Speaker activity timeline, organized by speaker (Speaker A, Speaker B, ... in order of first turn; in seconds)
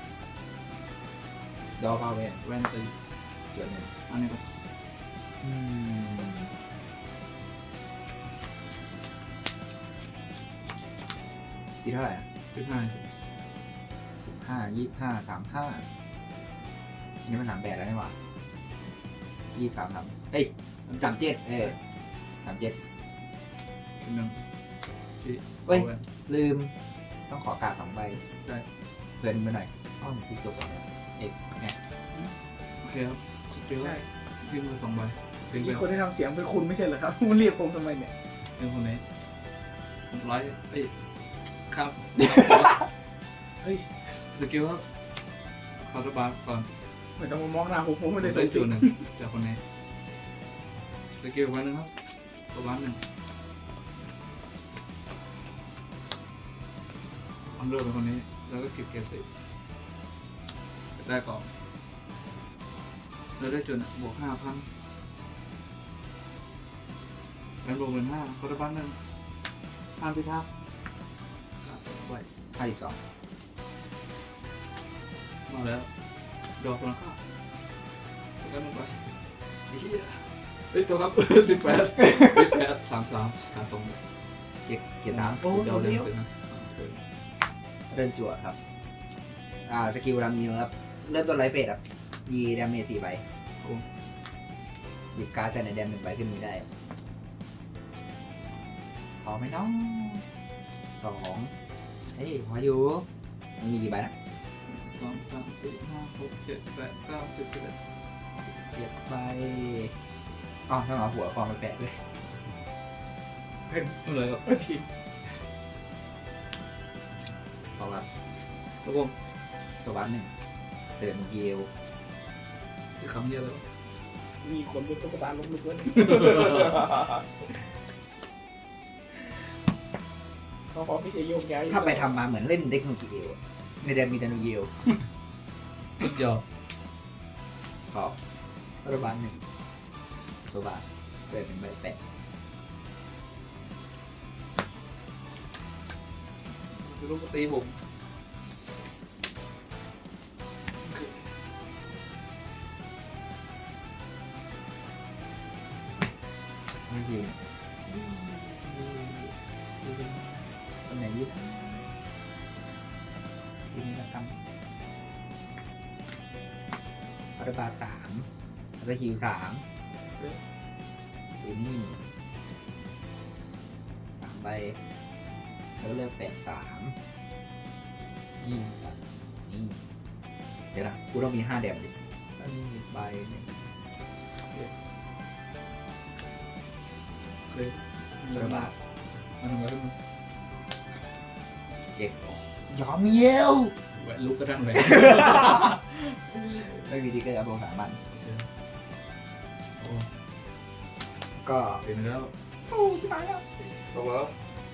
Speaker A: 1.8-2.4, 3.5-3.9, 5.4-6.5, 11.8-12.3, 14.2-15.8, 17.3-18.1, 19.6-21.8, 22.4-22.8, 25.7-26.7, 27.3-28.2, 29.2-31.8, 72.6-73.0, 84.6-86.1, 87.9-88.6, 89.7-93.2, 95.1-96.7, 99.2-100.3, 100.9-101.5, 102.1-103.1, 103.6-104.1, 108.4-109.9, 110.7-112.0, 117.8-118.1, 119.8-120.3, 121.0-121.7, 131.7-134.7, 138.8-139.4, 140.5-142.0, 156.9-161.9, 163.7-164.4, 167.4-168.3, 168.8-169.6, 171.4-172.0, 174.2-174.8, 175.8-177.0, 178.4-179.8, 180.7-183.7, 188.3-188.7, 191.9-193.8, 194.9-195.8, 196.5-198.0, 201.4-201.8, 202.7-203.4
Speaker B: 2.4-3.0, 4.1-4.5, 12.5-13.0, 20.9-21.2, 24.0-24.4, 25.2-26.1, 28.4-28.7, 32.8-35.9, 38.6-39.0, 40.1-41.0, 41.7-42.9, 44.1-44.9, 45.8-46.7, 48.2-49.6, 51.1-51.9, 52.5-53.0, 57.5-59.3, 61.0-61.5, 63.4-64.7, 67.6-69.0, 70.0-70.5, 71.6-72.3, 75.5-75.9, 76.6-77.2, 78.4-79.1, 79.7-84.0, 85.1-87.0, 93.6-93.9, 104.6-107.8, 114.0-114.8, 118.8-119.2, 123.0-123.7, 126.0-126.8, 136.0-136.4, 146.7-147.8, 150.8-151.5, 170.1-170.4, 184.4-184.7, 187.4-188.7, 189.4-190.0, 193.9-196.8, 198.1-198.5, 199.8-200.1, 201.8-202.3, 203.6-204.4
Speaker C: 33.8-34.0, 35.5-38.1, 43.6-43.9, 47.2-49.0, 113.7-114.0, 114.5-114.7, 124.4-127.5, 130.7-132.2